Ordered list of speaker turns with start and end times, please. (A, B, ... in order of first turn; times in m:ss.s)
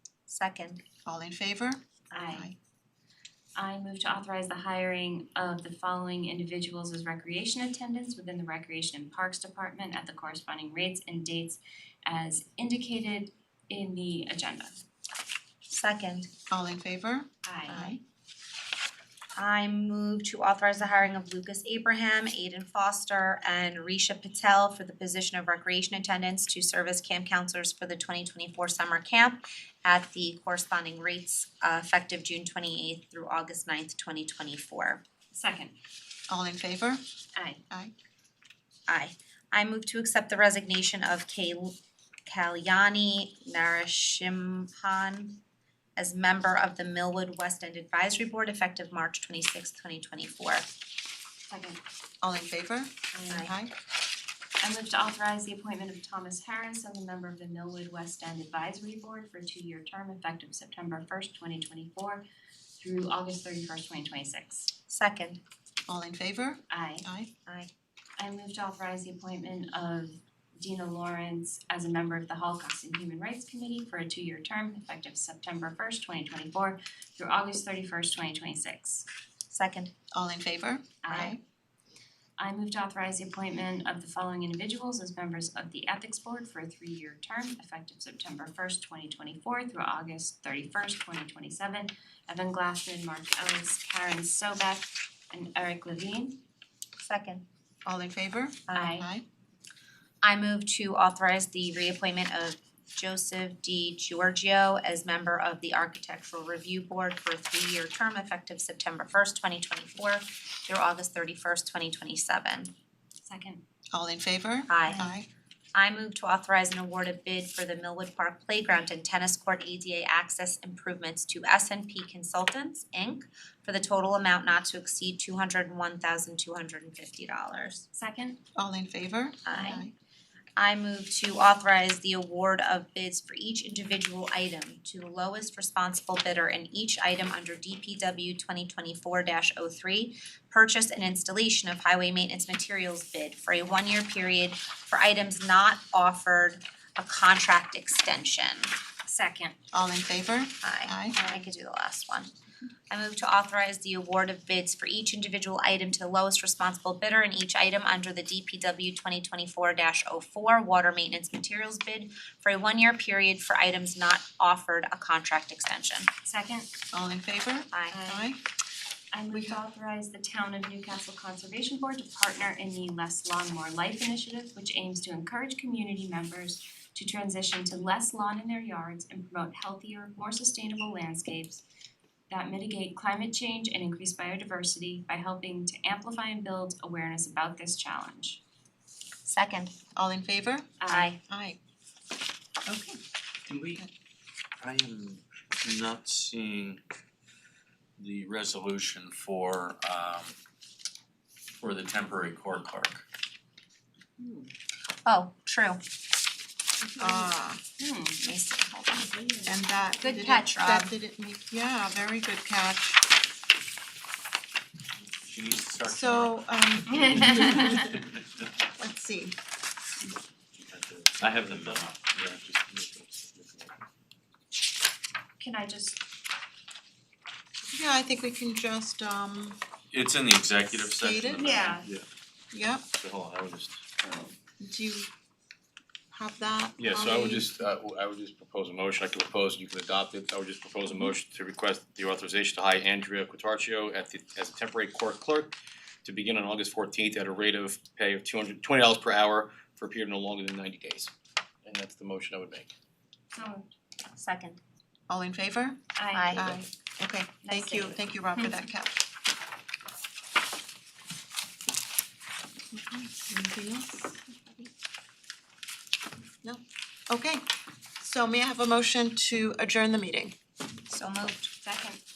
0:00.3-0:00.8 A
0:01.0-0:02.5 B
0:02.1-0:02.5 C
0:03.5-0:14.8 C
0:15.7-0:16.3 A
0:16.5-0:18.0 B
0:17.4-0:17.8 C
0:17.7-0:18.0 A
0:19.4-0:35.0 A
0:35.3-0:35.7 C
0:36.3-0:37.0 B
0:37.3-0:37.6 C
0:38.9-0:45.4 A
0:46.0-0:50.7 A
0:51.5-0:51.8 C
0:52.2-0:53.7 B
0:53.1-0:53.5 C
0:54.6-1:02.2 C
1:02.8-1:04.7 C
1:04.9-1:05.4 A
1:05.9-1:07.3 B
1:06.7-1:07.1 C
1:08.2-1:19.1 C
1:19.5-1:19.9 A
1:20.1-1:21.4 B
1:21.0-1:21.4 C
1:22.4-1:36.4 C
1:37.0-1:37.4 A
1:37.8-1:39.2 B
1:38.7-1:39.1 C
1:40.2-1:52.7 A
1:53.2-1:53.6 C
1:53.9-1:55.3 B
1:54.7-1:55.1 A
1:55.7-2:07.8 A
2:07.9-2:08.4 C
2:08.5-2:09.9 B
2:09.5-2:09.8 A
2:09.5-2:09.8 C
2:10.6-2:28.7 A
2:29.0-2:29.5 C
2:29.7-2:31.2 B
2:30.6-2:32.3 A
2:32.9-2:46.1 A
2:46.2-2:46.7 C
2:46.9-2:48.4 B
2:47.7-2:48.0 A
2:47.9-2:48.3 C
2:49.1-3:01.6 C
2:49.3-2:49.6 B
3:02.3-3:08.4 C
3:09.2-3:09.7 A
3:10.0-3:11.6 B
3:10.8-3:11.2 C
3:10.9-3:11.2 A
3:12.6-3:13.0 B
3:13.5-3:13.8 D
3:14.6-3:16.8 D
3:18.0-3:20.3 D
3:21.6-3:23.0 D
3:24.2-3:24.4 C
3:25.0-3:25.8 A
3:26.8-3:28.2 C
3:27.0-3:27.6 B
3:28.2-3:29.1 A
3:28.9-3:29.6 C
3:29.4-3:33.0 B
3:30.0-3:30.9 A
3:35.0-3:36.4 D
3:35.9-3:37.9 B
3:36.9-3:37.9 C
3:37.7-3:38.0 D
3:38.8-3:39.3 B
3:40.6-3:42.5 D
3:41.2-3:43.7 E
3:45.4-3:46.0 C
3:47.7-3:49.6 B
3:49.9-3:51.8 D
3:50.7-3:51.6 B
3:51.4-3:51.9 C
3:52.5-3:52.8 B
3:52.9-3:53.9 D
3:54.6-3:55.1 B
3:56.1-3:57.5 B
3:56.8-4:11.1 E
4:11.6-4:12.7 E
4:13.3-4:13.7 C
4:14.1-4:14.6 A
4:15.1-4:19.0 B
4:16.0-4:16.6 C
4:16.1-4:16.4 A
4:17.4-4:18.6 C
4:22.7-4:24.2 B
4:26.4-4:27.5 B
4:28.0-4:30.3 B
4:30.9-4:31.6 A
4:31.6-4:32.0 C